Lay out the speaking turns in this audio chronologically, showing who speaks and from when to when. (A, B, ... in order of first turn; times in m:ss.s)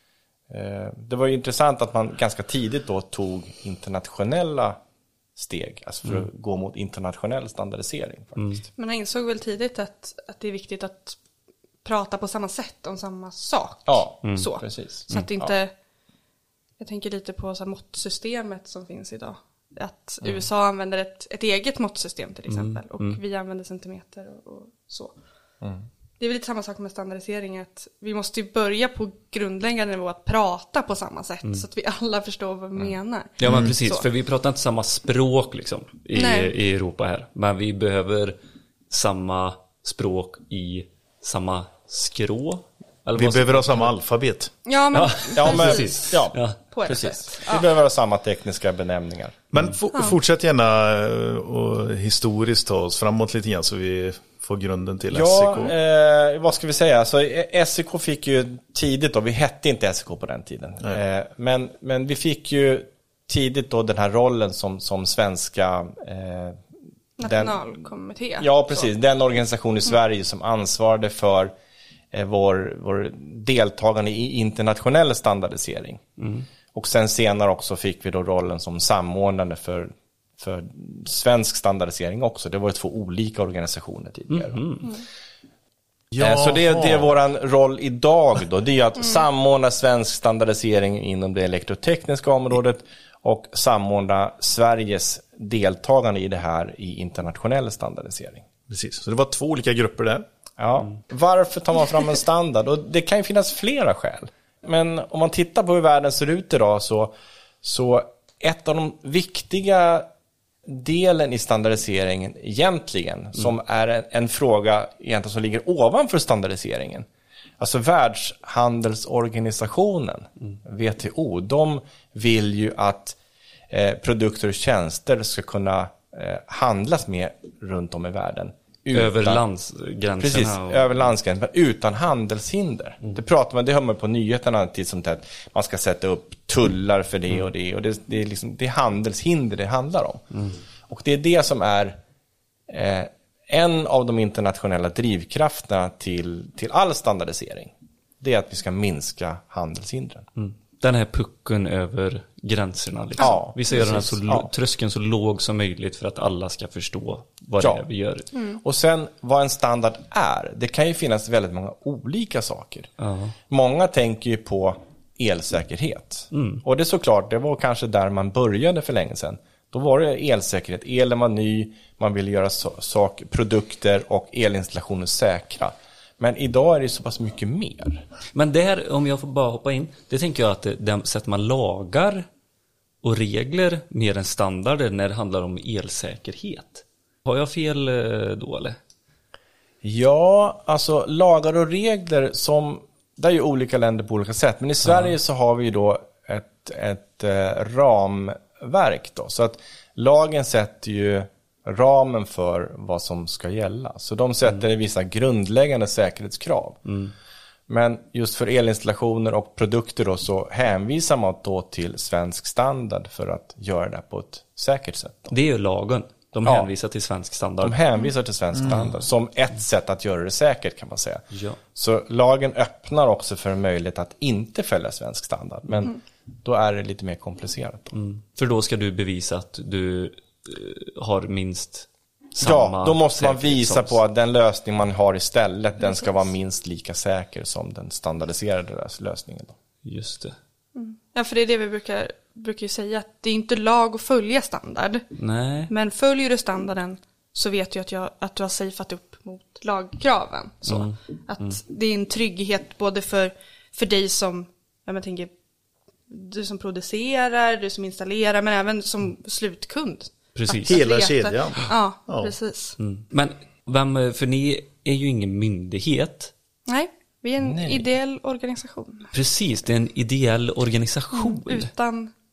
0:00.5-0:04.8 A
0:05.4-0:08.6 A
0:08.8-0:11.2 B
0:11.8-0:15.7 B
0:13.9-0:15.5 A
0:14.2-0:14.5 C
0:16.8-0:25.1 B
0:22.5-0:23.2 C
0:26.2-0:34.1 B
0:33.4-0:38.4 C
0:33.4-0:33.7 D
0:36.1-0:36.5 B
0:38.9-0:43.9 C
0:43.2-0:44.5 D
0:44.6-0:46.2 B
0:44.9-0:46.6 C
0:45.3-0:49.4 A
0:46.7-0:47.7 B
0:49.5-0:55.7 D
0:55.1-1:06.6 A
1:07.2-1:08.8 B
1:07.2-1:07.6 A
1:08.4-1:11.5 A
1:12.1-1:16.0 A
1:16.2-1:16.4 C
1:16.7-1:24.6 A
1:24.3-1:24.9 C
1:26.1-1:27.0 D
1:26.2-1:38.4 A
1:38.7-1:40.2 D
1:40.6-1:50.1 A
1:50.6-1:57.1 A
1:57.6-2:03.2 A
2:03.7-2:09.4 A
2:08.9-2:10.8 C
2:10.2-2:22.0 A
2:22.7-2:30.3 A
2:30.4-2:38.3 C
2:33.2-2:34.5 A
2:38.6-2:42.9 A
2:43.0-2:43.3 C
2:43.5-2:58.0 A
2:46.3-2:46.6 C
2:58.3-3:02.2 C
3:03.0-3:08.8 C
3:09.8-3:26.8 A
3:14.8-3:15.1 C
3:26.8-3:27.1 C
3:27.7-3:35.3 A
3:35.3-3:37.8 C
3:36.4-3:36.7 A
3:37.6-3:41.2 A
3:41.3-3:41.6 C
3:41.7-3:47.9 A
3:47.9-3:54.0 C
3:52.4-3:59.6 A
3:59.8-4:00.4 C
4:00.7-4:05.0 B
4:05.2-4:05.7 C
4:05.7-4:15.3 B
4:10.7-4:11.6 C
4:16.1-4:22.8 B
4:20.3-4:20.8 C
4:20.6-4:22.3 D
4:22.8-4:26.3 C
4:26.7-4:29.1 B
4:27.4-4:27.8 A
4:29.1-4:31.7 C
4:31.1-4:32.1 B